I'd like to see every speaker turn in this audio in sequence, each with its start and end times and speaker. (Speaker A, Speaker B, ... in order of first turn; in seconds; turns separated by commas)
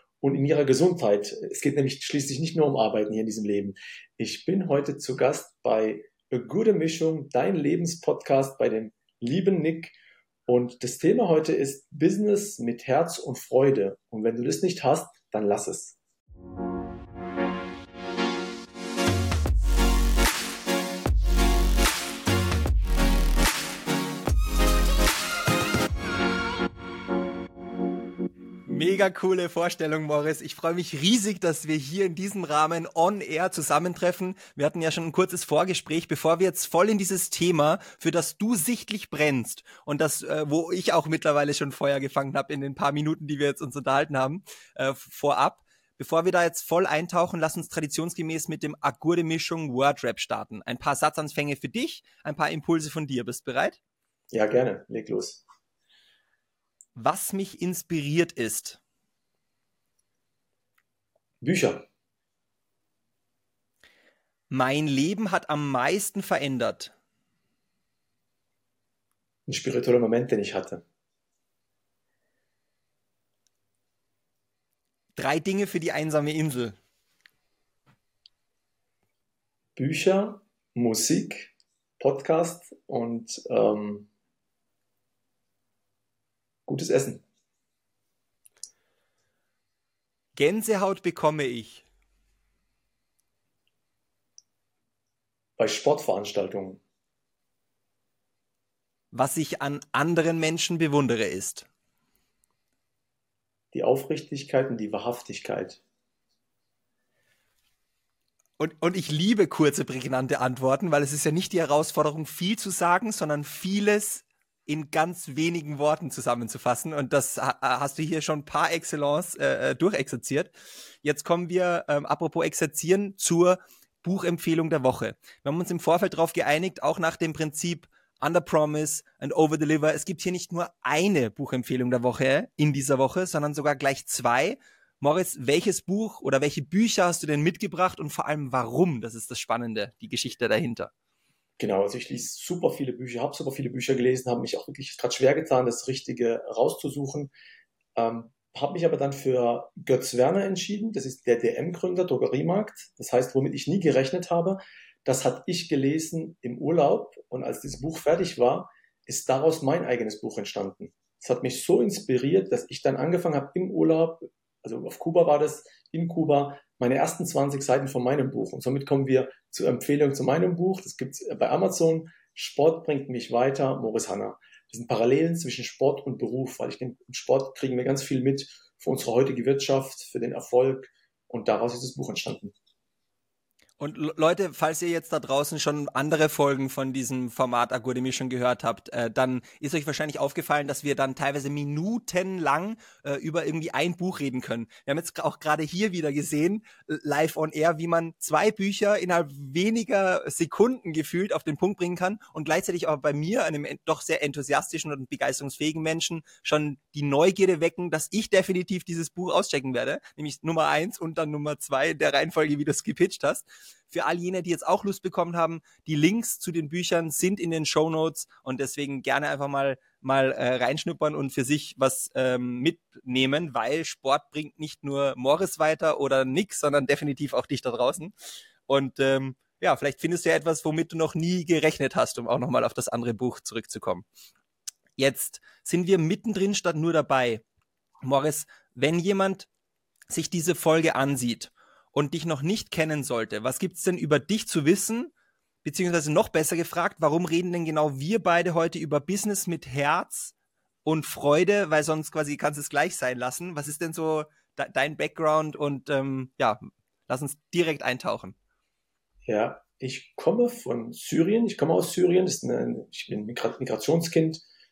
Speaker A: 0.2-9.9, Speaker A: 10.5-16.0, Speaker B: 28.7-53.8, Speaker A: 54.3-55.4, Speaker B: 57.0-58.8, Speaker A: 61.4-61.9, Speaker B: 64.5-66.9, Speaker A: 69.5-70.8, Speaker B: 75.2-76.8, Speaker A: 79.8-84.1, Speaker A: 86.7-87.2, Speaker B: 90.3-91.8, Speaker A: 95.6-96.8, Speaker B: 99.1-101.7, Speaker A: 103.7-105.8, Speaker B: 108.6-140.9, Speaker A: 141.6-147.3, Speaker A: 148.0-182.5, Speaker B: 183.8-228.1, Speaker B: 228.7-234.1, Speaker B: 235.0-237.4, Speaker B: 238.0-239.5, Speaker B: 240.1-245.1, Speaker B: 245.6-250.3, Speaker B: 250.8-258.4, Speaker A: 259.3-264.4